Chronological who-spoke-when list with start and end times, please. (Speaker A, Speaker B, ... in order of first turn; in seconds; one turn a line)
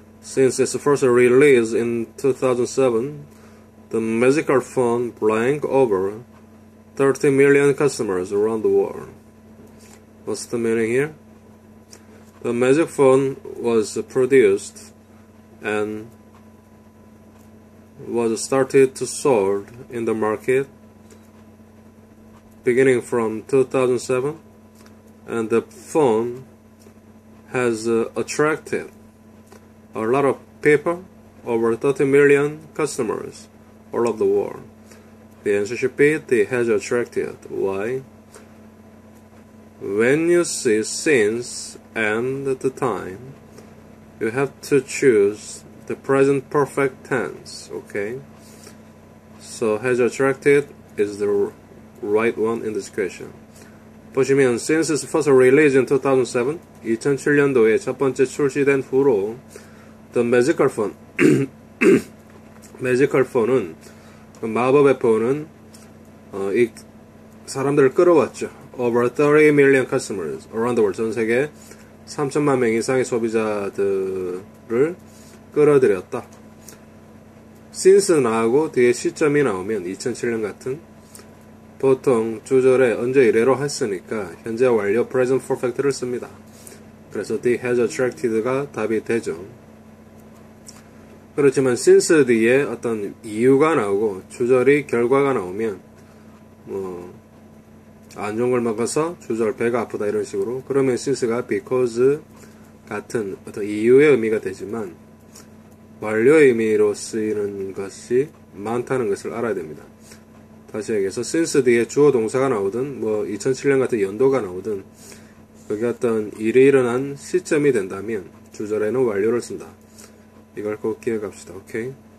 Speaker A: 0.2-3.3
Speaker A: 3.9-6.2
Speaker A: 6.9-9.2
Speaker A: 10.2-11.2
Speaker A: 12.4-14.9
Speaker A: 15.6-16.1
Speaker A: 18.0-20.7
Speaker A: 22.6-24.4
Speaker A: 25.2-26.5
Speaker A: 27.5-28.9
Speaker A: 29.9-34.7
Speaker A: 35.4-38.0
Speaker A: 39.8-43.4
Speaker A: 44.2-48.2
Speaker A: 49.4-53.4
Speaker A: 54.1-59.4
Speaker A: 60.1-62.0
Speaker A: 62.8-63.8
Speaker A: 64.4-65.5
Speaker A: 66.3-66.8
Speaker A: 67.5-71.5
Speaker A: 72.0-75.0
Speaker A: 75.5-76.3
Speaker A: 77.7-80.8
Speaker A: 81.8-86.4
Speaker A: 87.1-89.5
Speaker A: 91.3-95.8
Speaker A: 96.6-97.2
Speaker A: 98.2-102.2
Speaker A: 102.8-105.0
Speaker A: 106.0-109.9
Speaker A: 110.7-114.9
Speaker A: 115.7-119.8
Speaker A: 120.5-122.0